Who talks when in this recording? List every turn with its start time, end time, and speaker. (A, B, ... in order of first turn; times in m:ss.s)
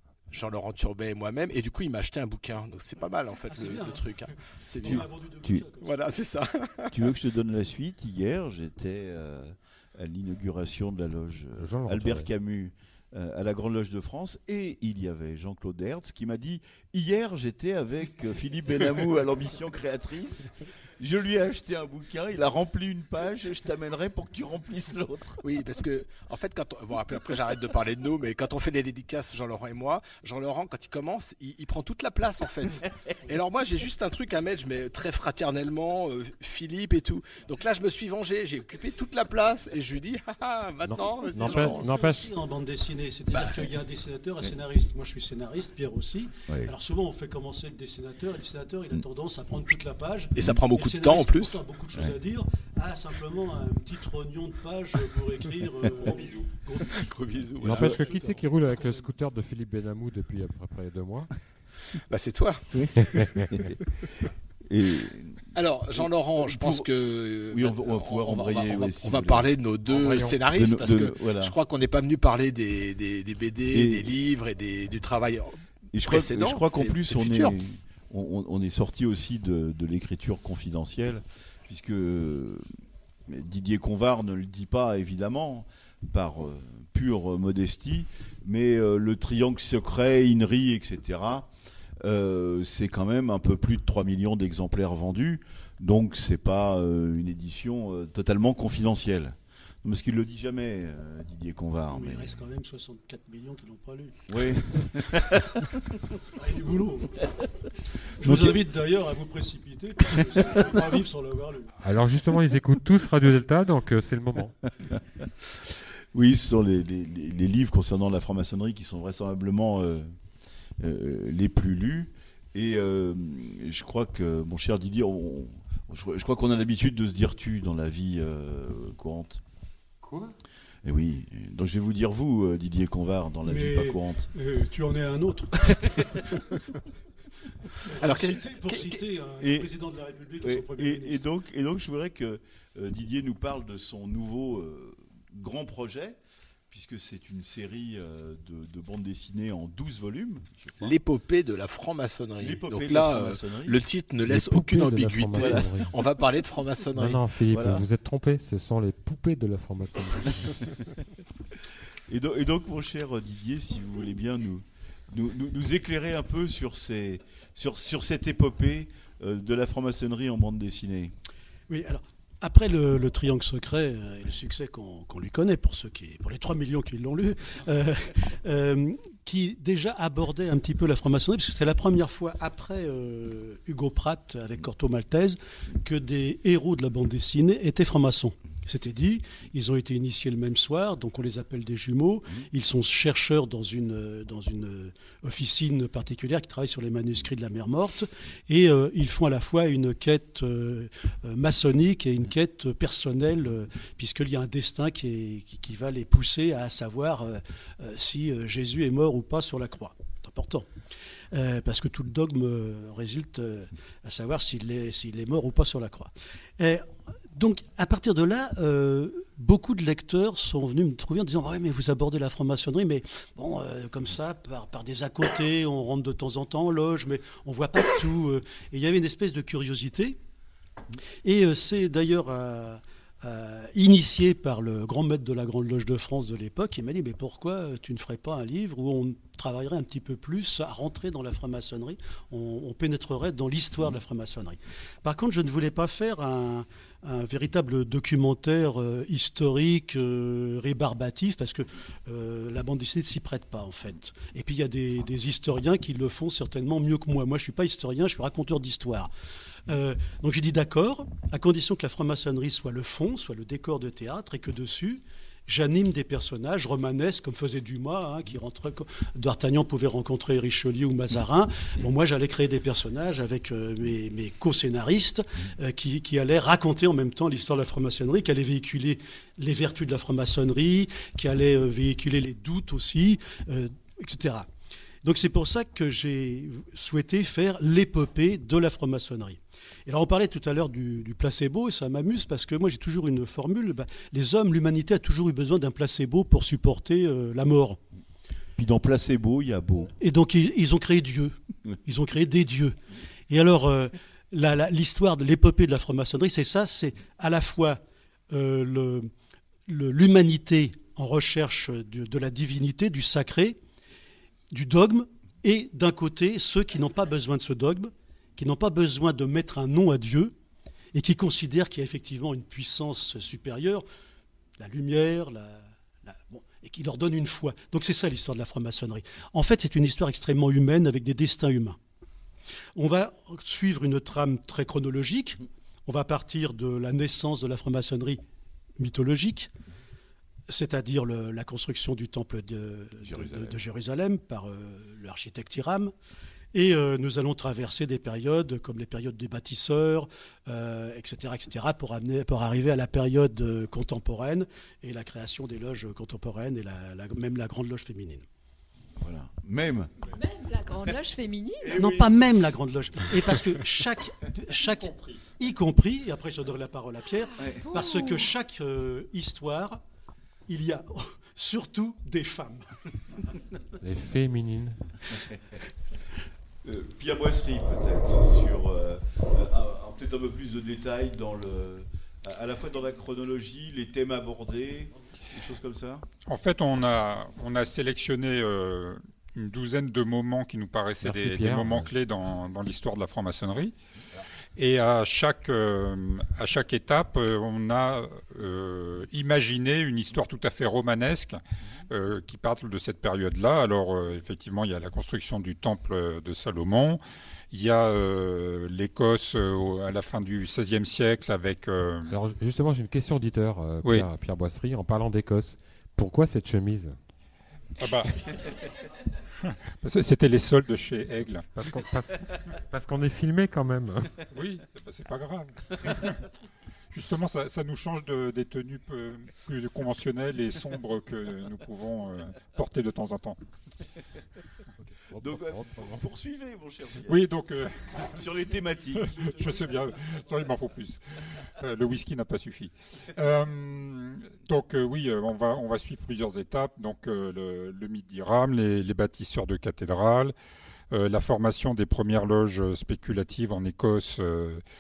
0:00.3-0:05.1 A
0:03.5-0:04.3 B
0:04.8-0:06.1 B
0:04.8-0:05.6 C
0:05.8-0:07.0 A
0:06.9-0:25.4 C
0:11.6-0:12.3 D
0:25.4-0:42.2 A
0:40.8-0:42.3 D
0:41.4-0:57.1 B
0:43.4-0:43.6 A
0:46.5-0:46.7 C
0:50.4-0:51.6 A
0:56.8-0:58.4 A
0:57.6-1:01.3 D
0:57.7-0:59.1 B
1:02.1-1:03.4 A
1:02.7-1:03.8 C
1:03.2-1:03.5 D
1:04.7-1:06.9 C
1:05.5-1:17.6 A
1:07.5-1:09.5 C
1:09.9-1:10.4 D
1:10.5-1:11.6 C
1:13.7-1:14.1 C
1:15.9-1:22.6 C
1:23.3-1:31.5 C
1:32.0-1:42.4 C
1:41.9-1:44.6 B
1:44.3-1:45.7 C
1:46.3-1:47.3 B
1:48.2-1:51.7 B
1:48.2-1:48.6 C
1:50.4-1:50.9 C
1:51.8-1:54.6 D
1:56.1-2:00.2 C
2:00.8-2:09.4 C
2:10.0-2:10.4 D
2:10.8-2:14.3 C
2:13.4-2:16.2 B
2:17.9-2:21.3 B
2:18.0-2:19.0 A
2:19.4-2:19.7 C
2:20.4-2:26.2 C
2:26.7-2:31.0 C
2:30.8-2:37.2 A
2:32.4-2:33.9 C
2:34.3-2:36.0 D
2:35.4-2:35.7 C
2:37.0-2:40.7 D
2:37.5-2:37.8 C
2:42.1-2:51.1 C
2:51.7-3:30.7 B
3:31.3-3:50.2 B
3:51.2-4:19.1 B
4:19.7-4:44.5 B
4:45.0-4:57.8 B
4:58.6-4:59.9 C
5:00.0-5:02.8 B
5:03.3-5:07.8 B
5:08.3-5:09.1 B
5:09.7-5:13.6 B
5:14.5-5:20.4 B
5:21.0-5:23.8 B
5:24.6-5:31.8 B
5:32.8-5:38.2 B
5:38.8-5:39.5 B
5:40.5-5:45.9 B
5:43.0-5:43.6 C
5:46.5-5:58.2 B
5:59.0-6:00.0 C
6:00.1-6:01.7 E
6:01.7-6:09.8 B
6:01.7-6:02.1 C
6:07.7-6:08.2 E
6:10.5-6:12.7 B
6:13.8-6:14.8 D
6:16.6-6:26.1 C
6:26.3-6:33.7 F
6:31.0-6:31.9 D
6:34.6-6:52.2 F
6:52.1-6:57.0 D
6:57.8-6:58.3 F
6:59.5-7:01.5 F
7:01.2-7:04.2 D
7:04.3-7:06.2 F
7:06.9-7:13.4 F
7:15.1-7:16.1 D
7:15.2-7:17.4 C
7:17.1-7:18.1 F
7:18.0-7:19.2 C
7:18.5-7:20.6 B
7:19.2-7:30.3 F
7:30.9-7:34.6 F